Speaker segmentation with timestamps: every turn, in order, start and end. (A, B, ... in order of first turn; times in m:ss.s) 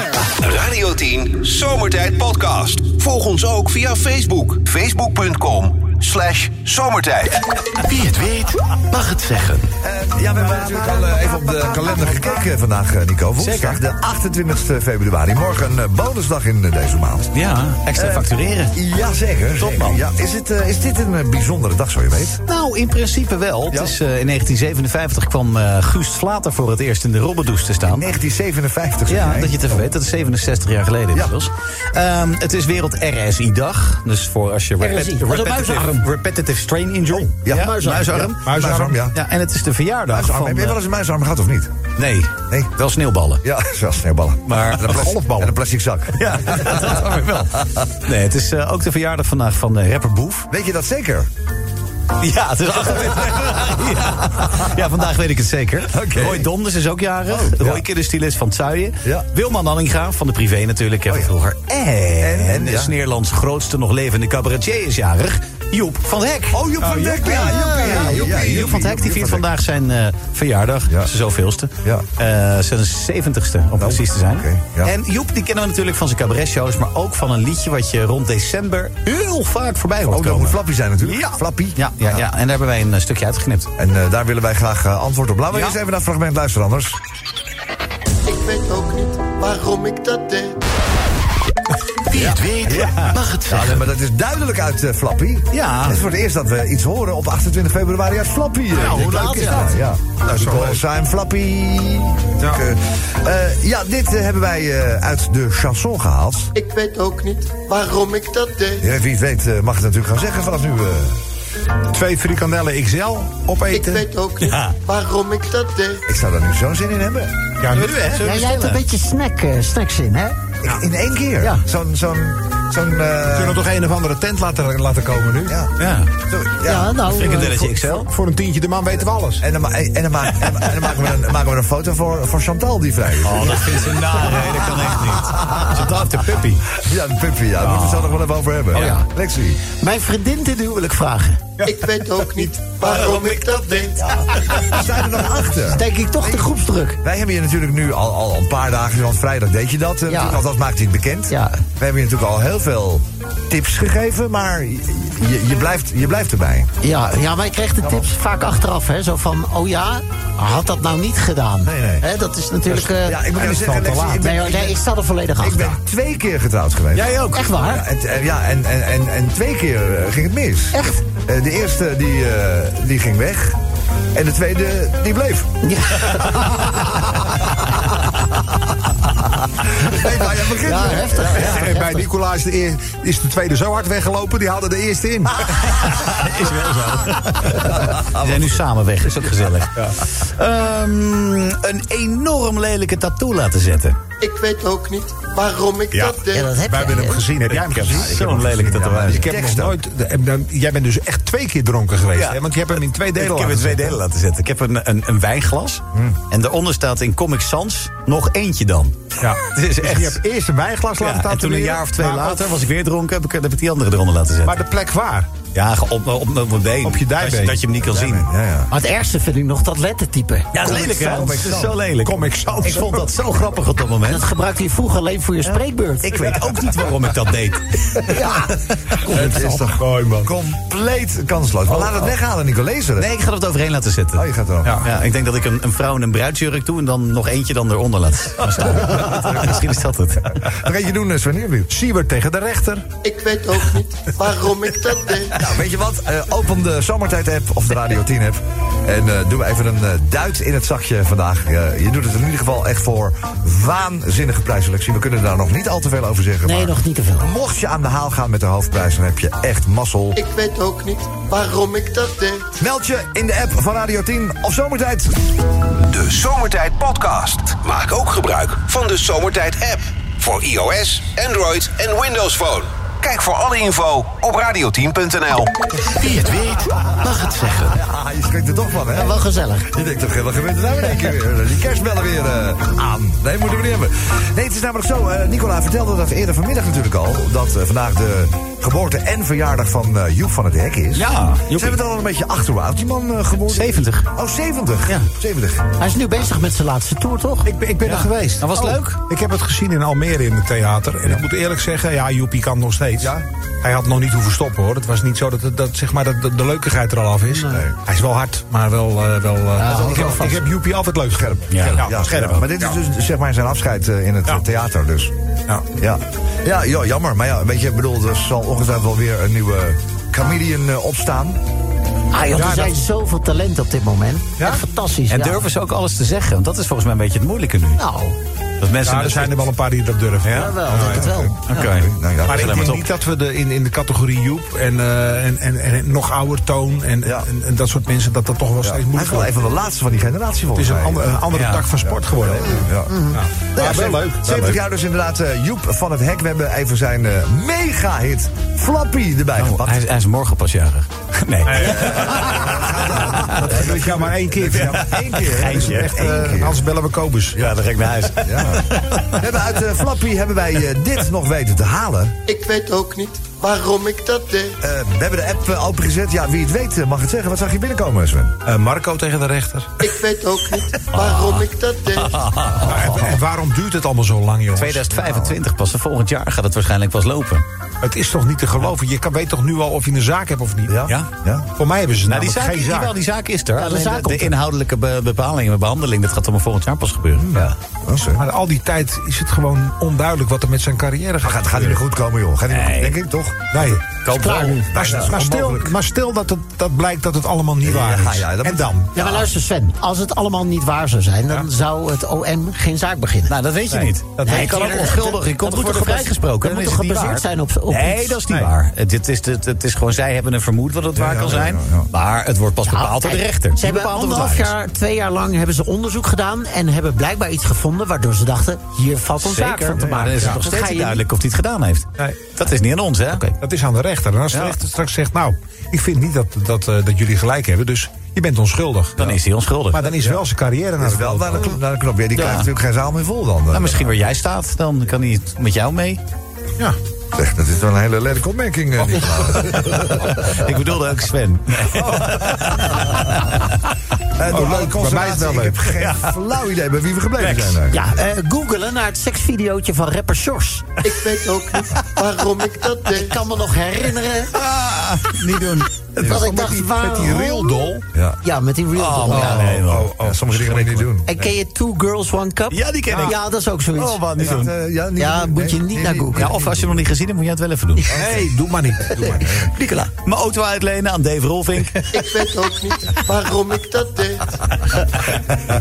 0:00.4-0:07.4 A
0:07.8-0:09.7 B
0:09.8-0:17.4 C
0:13.4-0:13.8 D
0:17.3-0:18.8 D
0:17.9-0:22.4 C
0:19.6-0:20.0 D
0:22.5-0:28.1 D
0:23.7-0:24.0 C
0:27.8-0:29.6 C
0:29.1-0:40.8 D
0:34.8-0:36.0 E
0:37.3-0:39.2 C
0:37.4-0:38.4 E
0:38.4-0:39.0 F
0:40.1-0:41.7 C
0:42.0-0:43.4 D
0:43.4-0:47.8 C
0:44.5-0:45.5 D
0:45.1-0:45.4 F
0:46.1-0:50.5 D
0:50.5-0:51.3 C
0:52.2-1:23.7 D
0:53.1-0:53.6 C
0:55.8-0:56.5 C
0:57.3-0:57.8 C
1:01.1-1:01.3 C
1:02.2-1:03.0 C
1:06.5-1:09.4 C
1:06.8-1:08.8 F
1:07.3-1:07.8 E
1:10.9-1:11.1 C
1:13.8-1:14.9 C
1:20.1-1:22.2 C
1:23.8-1:27.0 C
1:25.5-1:25.8 D
1:28.2-1:30.6 G
1:32.1-1:33.9 B
1:32.2-1:46.5 C
1:32.8-1:33.1 D
1:35.5-1:36.0 D
1:38.7-1:40.8 F
1:38.9-1:39.6 E
1:46.5-1:48.8 G
1:48.8-1:51.2 C
1:51.9-1:54.1 F
1:53.7-1:56.0 G
1:54.4-1:54.7 D
1:56.1-1:57.4 C
1:57.6-1:58.3 F
1:57.7-1:58.8 D
1:58.2-2:00.4 E
2:00.6-2:03.6 C
2:03.3-2:05.6 F
2:05.4-2:07.1 C
2:05.8-2:06.1 D
2:06.6-2:07.6 E
2:07.0-2:08.1 D
2:07.4-2:09.4 F
2:08.9-2:14.2 C
2:13.2-2:16.8 D
2:16.8-2:19.6 C
2:17.6-2:18.1 D
2:18.7-2:19.0 D
2:18.7-2:19.0 E
2:19.6-2:21.4 E
2:21.6-2:24.2 G
2:22.2-2:23.7 F
2:24.5-2:36.7 C
2:25.6-2:27.0 E
2:30.1-2:30.4 E
2:31.3-2:31.6 E
2:36.8-2:43.4 E
2:41.6-2:42.1 C
2:42.7-2:44.8 C
2:43.4-2:44.2 F
2:44.1-2:45.8 E
2:45.4-2:53.6 C
2:46.9-2:47.5 D
2:47.3-2:47.8 E
2:50.7-2:51.0 E
2:54.1-2:55.5 C
2:55.6-2:57.3 E
2:59.8-3:01.5 C
3:00.6-3:02.1 E
3:01.2-3:05.8 F
3:05.6-3:14.0 D
3:07.8-3:08.5 C
3:14.2-3:16.6 G
3:15.9-3:24.0 F
3:16.3-3:17.3 E
3:17.5-3:19.4 D
3:17.7-3:19.8 C
3:22.1-3:30.2 D
3:25.9-3:26.2 C
3:29.2-3:32.4 F
3:31.0-3:34.6 D
3:34.4-3:35.3 F
3:35.5-3:38.3 D
3:36.8-3:37.6 F
3:37.8-3:38.7 C
3:38.7-3:41.0 E
3:40.5-3:44.2 D
3:40.5-3:41.8 C
3:42.0-3:43.1 F
3:44.0-3:46.3 E
3:46.0-3:48.0 D
3:48.0-3:49.6 E
3:49.1-3:53.1 C
3:49.8-3:50.3 F
3:51.7-3:52.1 D
3:53.0-4:00.4 D
3:54.1-3:54.8 C
3:54.6-3:54.9 F
4:00.4-4:01.7 C
4:01.7-4:02.8 F
4:03.0-4:05.4 G
4:05.4-4:20.2 C
4:16.4-4:17.3 E
4:20.1-4:22.5 G
4:22.6-4:25.2 C
4:25.8-4:35.5 A
4:35.9-4:37.8 B
4:37.7-4:55.6 C
4:38.9-4:39.7 E
4:50.9-4:51.8 D
4:53.5-4:54.1 D
4:55.8-4:57.5 E
4:57.4-5:12.7 F
4:57.8-4:59.0 D
5:03.0-5:03.2 C
5:07.3-5:07.6 E
5:07.5-5:07.8 C
5:09.6-5:10.4 E
5:11.1-5:15.1 C
5:11.5-5:12.4 D
5:15.8-5:21.4 C
5:22.1-5:25.4 E
5:22.3-5:22.8 F
5:24.4-5:24.6 F
5:25.1-5:27.8 D
5:27.8-5:28.2 E
5:28.6-5:29.5 D
5:28.8-5:31.3 F
5:30.2-5:30.9 D
5:30.3-5:31.6 E
5:31.2-5:32.6 C
5:31.5-5:32.9 D
5:32.2-5:39.3 F
5:37.0-5:37.3 C
5:38.6-5:41.3 C
5:40.5-5:44.6 F
5:41.3-5:41.8 D
5:41.8-5:49.8 C
5:42.5-5:43.2 E
5:49.4-5:53.6 D
5:51.4-5:52.3 F
5:51.6-5:56.6 C
5:53.2-5:57.4 F
5:54.9-5:56.1 D
5:57.3-5:59.2 D
5:58.2-6:02.2 C
6:02.2-6:04.6 G
6:04.6-6:08.3 C
6:08.4-6:09.7 F
6:09.8-6:12.3 G
6:10.9-6:11.4 D
6:12.0-6:13.2 D
6:12.6-6:15.3 F
6:14.5-6:17.4 D
6:17.8-6:20.9 F
6:20.7-6:21.5 C
6:21.6-6:22.9 F
6:22.0-6:27.5 D
6:23.6-6:24.3 E
6:27.2-6:28.2 C
6:28.1-6:31.8 F
6:31.2-6:33.6 C
6:32.5-6:33.0 D
6:33.5-6:34.0 F
6:33.9-6:34.8 D
6:34.1-6:34.7 E
6:34.7-6:38.9 F
6:34.7-6:35.8 C
6:37.6-6:38.7 C
6:38.9-6:43.4 E
6:43.3-6:54.5 D
6:43.7-6:45.0 F
6:44.2-6:48.2 E
6:48.3-6:48.5 F
6:51.0-6:51.9 C
6:52.6-7:01.0 E
6:59.2-7:03.3 D
6:59.8-7:00.1 C
7:03.4-7:09.2 F
7:04.3-7:04.6 D
7:09.0-7:10.0 D
7:09.7-7:11.5 F
7:10.8-7:13.9 C
7:12.2-7:12.5 D
7:13.5-7:16.0 D
7:17.1-7:20.2 C
7:19.8-7:23.6 D
7:21.6-7:23.1 C
7:24.2-7:27.9 C
7:24.2-7:25.7 F
7:25.8-7:26.1 D
7:27.2-7:27.6 D
7:27.7-7:30.6 E
7:30.8-7:33.2 G
7:33.0-7:34.3 E
7:34.3-7:37.2 D
7:36.0-7:37.7 E
7:36.0-7:37.8 F
7:37.9-7:38.2 C
7:38.2-7:39.5 E
7:38.7-7:40.8 D
7:39.1-7:41.3 C
7:39.3-7:40.8 F
7:41.0-7:44.0 E
7:42.5-7:43.2 D
7:43.8-7:44.5 D
7:44.2-7:46.8 C
7:45.0-7:46.3 E
7:46.1-7:48.0 D
7:47.9-7:49.5 F
7:48.0-7:48.3 C
7:49.0-7:49.5 C
7:49.0-7:49.9 E
7:49.9-7:51.8 D
7:51.9-7:54.4 G